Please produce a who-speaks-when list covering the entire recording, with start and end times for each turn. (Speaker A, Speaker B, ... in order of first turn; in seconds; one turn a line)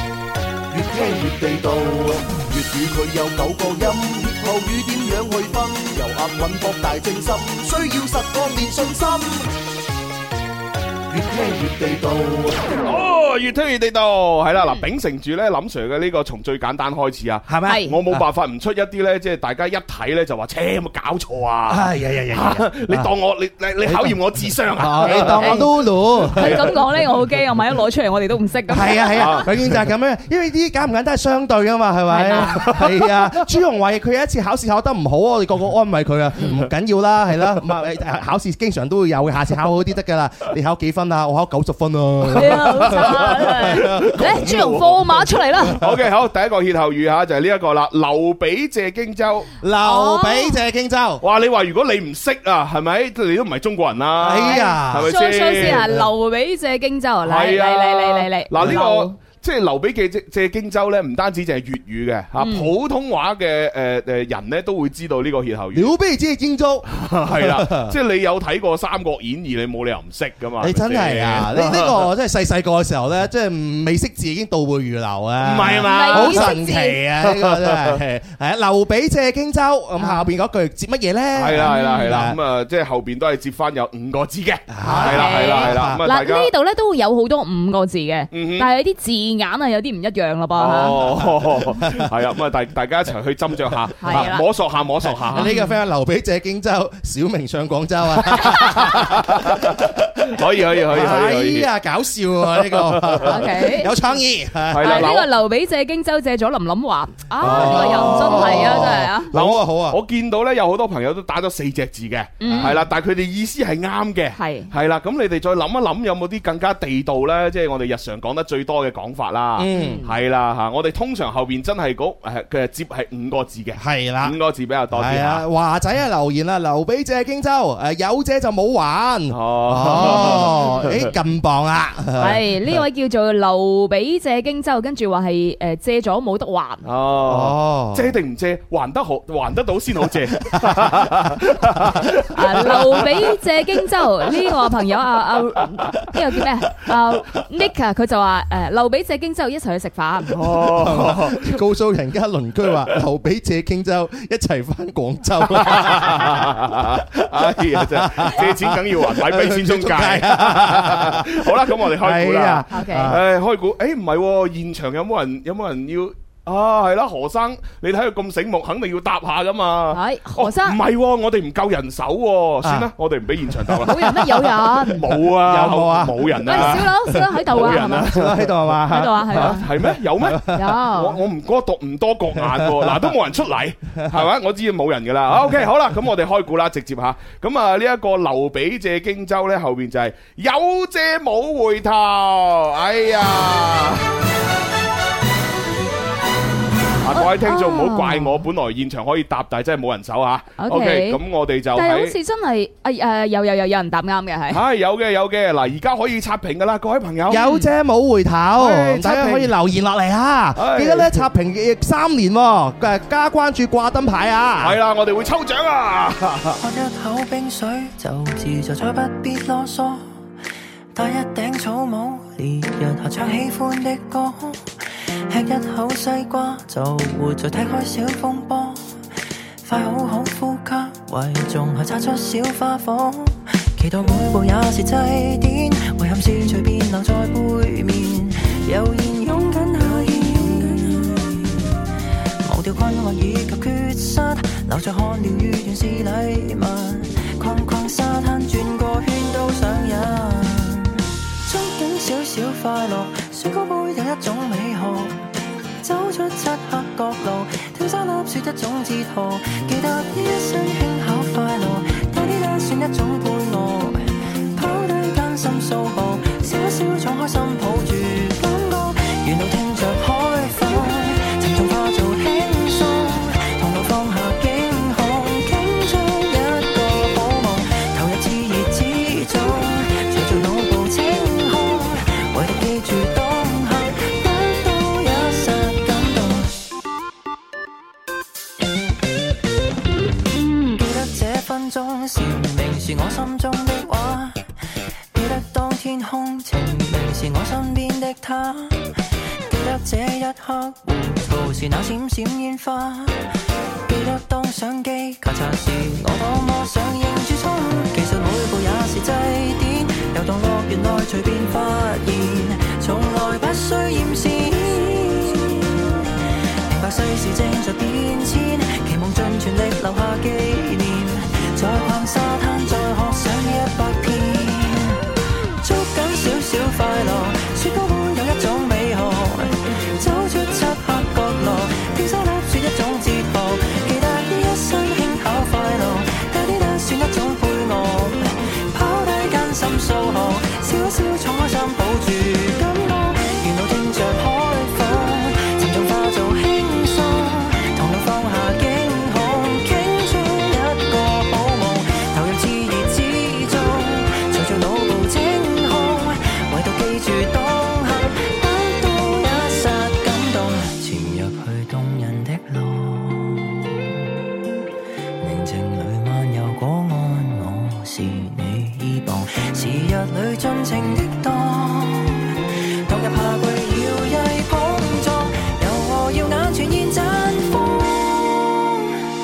Speaker A: 0.7-9.5
Speaker A: 11.1-12.7
Speaker B: 12.8-25.7
Speaker C: 17.5-18.2
Speaker D: 17.6-17.9
Speaker C: 21.7-23.1
Speaker C: 23.8-26.7
Speaker D: 25.0-25.7
Speaker B: 26.2-26.8
Speaker D: 26.3-29.4
Speaker C: 28.7-44.4
Speaker B: 29.1-29.8
Speaker D: 32.1-32.7
Speaker B: 32.3-33.5
Speaker D: 42.3-45.8
Speaker B: 42.5-49.5
Speaker C: 49.6-51.2
Speaker D: 49.8-50.6
Speaker B: 51.2-55.9
Speaker C: 54.2-56.0
Speaker D: 54.4-59.1
Speaker B: 57.2-65.9
Speaker D: 62.4-62.7
Speaker C: 65.7-68.0
Speaker B: 66.9-72.1
Speaker C: 70.6-82.4
Speaker B: 75.4-76.5
Speaker D: 75.8-77.0
Speaker B: 77.2-78.0
Speaker D: 80.0-80.3
Speaker B: 81.3-86.5
Speaker D: 81.6-82.2
Speaker C: 84.7-86.0
Speaker D: 84.8-91.1
Speaker B: 88.3-88.7
Speaker B: 90.5-95.5
Speaker D: 94.0-94.5
Speaker C: 95.3-99.8
Speaker D: 95.3-95.7
Speaker D: 98.3-99.0
Speaker B: 98.5-101.7
Speaker C: 100.4-105.2
Speaker B: 102.6-103.3
Speaker D: 103.2-103.9
Speaker B: 104.7-105.3
Speaker D: 104.8-109.3
Speaker C: 107.4-110.0
Speaker B: 107.4-125.4
Speaker D: 112.4-112.8
Speaker C: 112.5-112.8
Speaker D: 114.3-114.7
Speaker C: 119.6-120.0
Speaker D: 119.7-120.1
Speaker C: 123.8-124.3
Speaker C: 124.9-132.4
Speaker B: 129.3-131.1
Speaker D: 132.2-136.9
Speaker B: 136.8-143.2
Speaker C: 137.2-138.1
Speaker C: 140.6-141.0
Speaker D: 142.3-150.3
Speaker B: 150.3-151.6
Speaker C: 150.5-163.2
Speaker B: 155.6-174.2
Speaker D: 162.7-163.1
Speaker D: 169.9-170.8
Speaker C: 172.6-172.9
Speaker C: 173.6-174.3
Speaker D: 173.8-175.1
Speaker B: 174.8-176.9
Speaker C: 175.4-180.6
Speaker D: 176.4-178.1
Speaker B: 177.5-178.6
Speaker D: 178.9-179.7
Speaker B: 179.3-194.1
Speaker D: 180.5-181.2
Speaker C: 182.4-183.1
Speaker B: 197.0-202.1
Speaker D: 197.1-198.4
Speaker D: 200.6-201.2
Speaker D: 201.7-204.6
Speaker B: 204.5-207.4
Speaker C: 207.3-214.8
Speaker D: 207.4-207.7
Speaker B: 208.6-209.5
Speaker B: 210.6-211.3
Speaker B: 214.6-216.6
Speaker E: 216.6-220.1
Speaker E: 220.9-229.0
Speaker E: 229.6-241.6
Speaker E: 242.4-255.3
Speaker E: 255.8-286.5
Speaker E: 290.5-294.4
Speaker E: 295.1-298.9
Speaker E: 299.5-303.3
Speaker E: 303.9-316.1
Speaker E: 316.7-325.1
Speaker E: 325.6-364.1
Speaker E: 365.2-379.0